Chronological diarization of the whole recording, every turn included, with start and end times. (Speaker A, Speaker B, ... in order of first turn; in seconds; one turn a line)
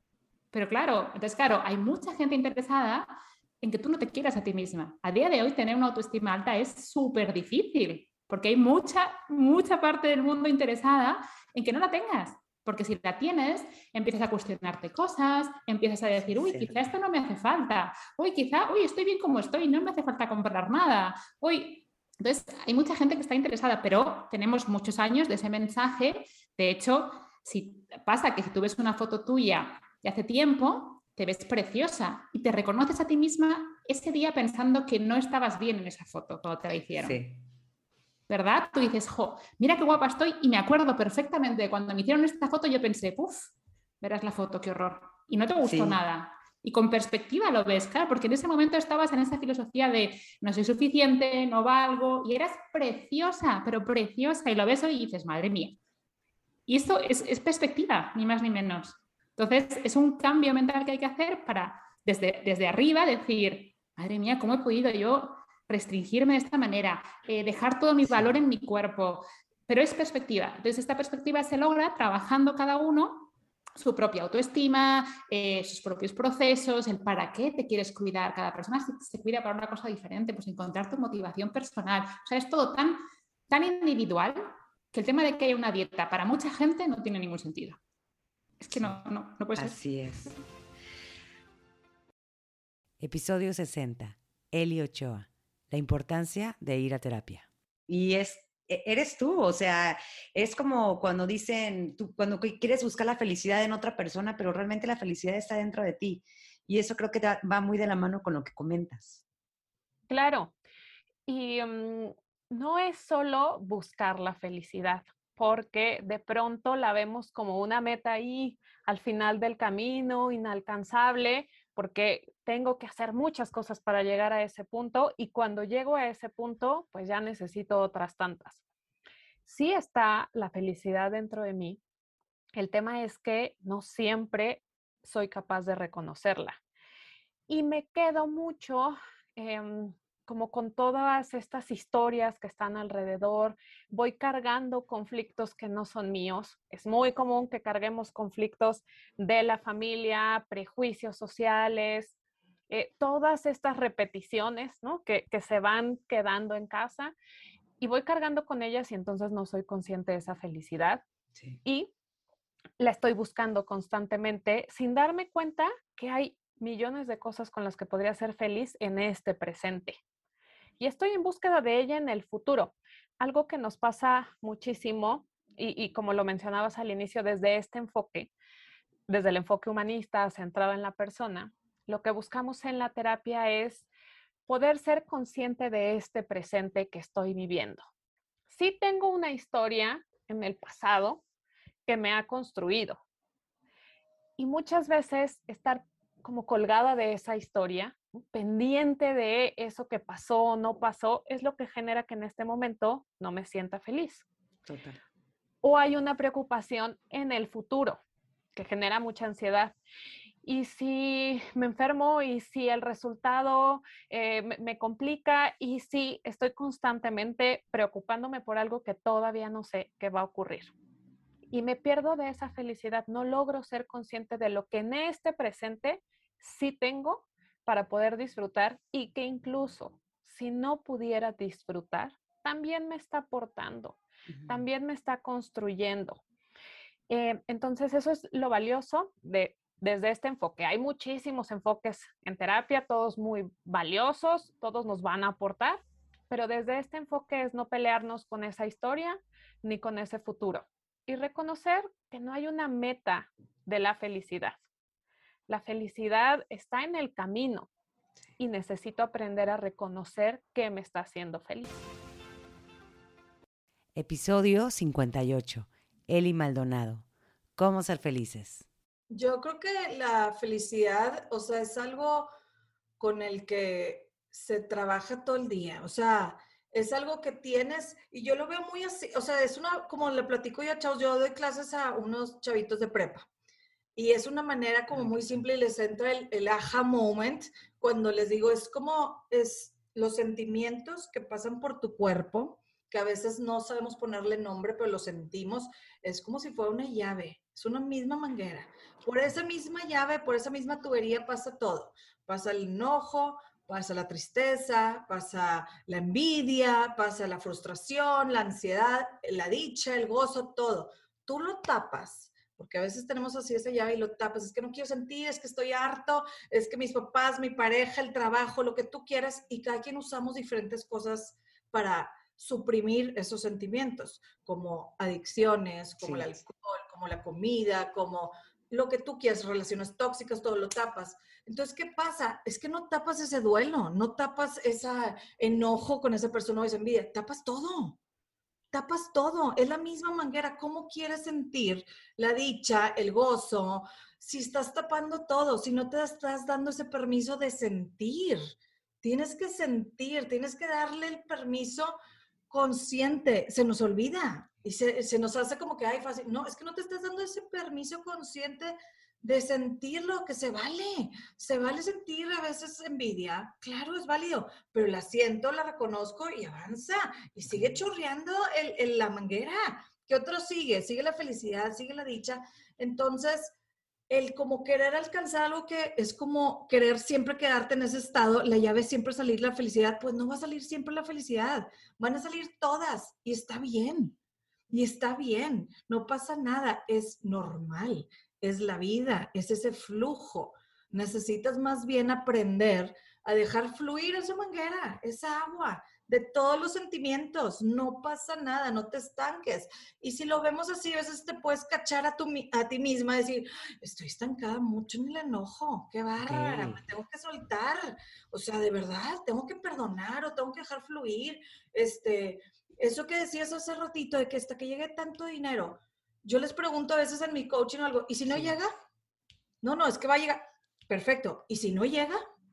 Speaker A: 0.5-37.2
Speaker B: 16.2-16.7
Speaker B: 37.0-37.4
Speaker A: 38.3-55.8
Speaker B: 45.6-46.0
Speaker A: 56.7-87.8
Speaker B: 68.0-68.3
Speaker A: 88.6-89.8
Speaker B: 89.5-90.3
Speaker B: 93.0-109.2
Speaker C: 110.1-110.5
Speaker C: 111.3-128.6
Speaker C: 129.4-131.8
Speaker C: 132.5-136.6
Speaker C: 137.5-152.2
Speaker C: 152.7-157.1
Speaker C: 157.8-161.0
Speaker C: 161.6-161.9
Speaker C: 162.8-170.0
Speaker C: 170.8-178.3
Speaker C: 179.1-183.9
Speaker C: 184.5-187.8
Speaker C: 188.5-191.2
Speaker C: 191.8-193.0
Speaker C: 194.4-204.2
Speaker B: 204.7-205.0
Speaker C: 205.6-208.0
Speaker C: 208.5-209.8
Speaker C: 210.4-220.7
Speaker C: 221.5-236.2
Speaker B: 234.3-234.6
Speaker C: 237.1-254.6
Speaker C: 255.5-257.7
Speaker C: 258.4-261.8
Speaker B: 263.9-267.1
Speaker B: 267.6-268.7
Speaker D: 269.1-272.3
Speaker D: 273.0-283.3
Speaker D: 283.9-338.0
Speaker B: 284.9-285.4
Speaker B: 326.0-326.3
Speaker D: 338.7-351.9
Speaker D: 352.5-373.5
Speaker D: 374.1-384.1
Speaker D: 384.7-418.7
Speaker B: 406.2-406.8
Speaker D: 419.6-422.2